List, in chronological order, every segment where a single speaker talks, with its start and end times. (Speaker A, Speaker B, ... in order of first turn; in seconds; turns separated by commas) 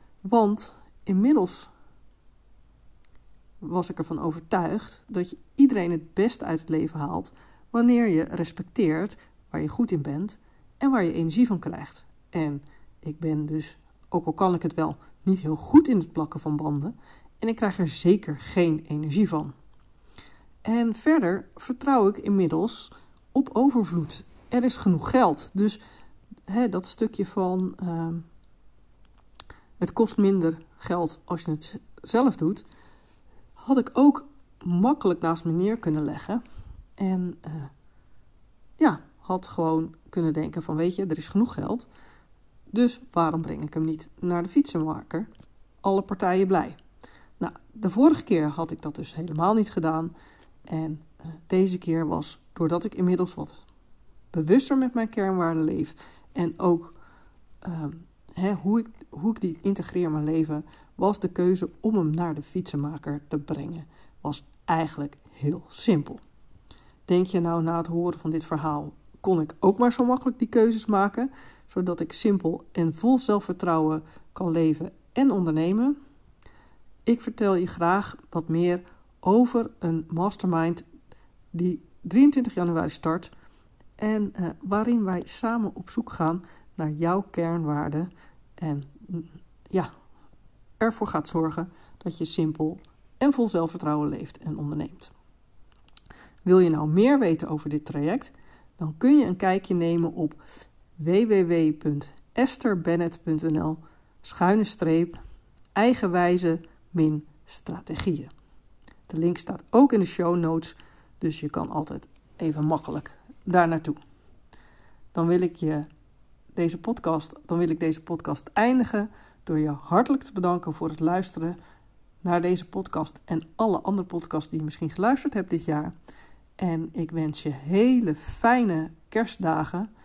Speaker A: 0.2-1.7, Speaker A: 3.6-19.5, Speaker A: 20.6-25.8, Speaker A: 26.5-28.2, Speaker A: 29.8-32.6, Speaker A: 33.5-36.4, Speaker A: 37.0-37.7, Speaker A: 38.8-41.9, Speaker A: 42.7-45.3, Speaker A: 45.8-46.8, Speaker A: 47.4-50.1, Speaker A: 50.7-53.6, Speaker A: 54.3-57.0, Speaker A: 57.6-66.2, Speaker A: 67.1-76.0, Speaker A: 77.0-80.8, Speaker A: 81.5-83.3, Speaker A: 84.0-89.9, Speaker A: 90.8-95.1, Speaker A: 96.4-100.4, Speaker A: 101.0-105.2, Speaker A: 105.7-108.3, Speaker A: 109.1-114.0, Speaker A: 115.1-115.9, Speaker A: 116.5-121.6, Speaker A: 122.2-125.9, Speaker A: 126.6-129.9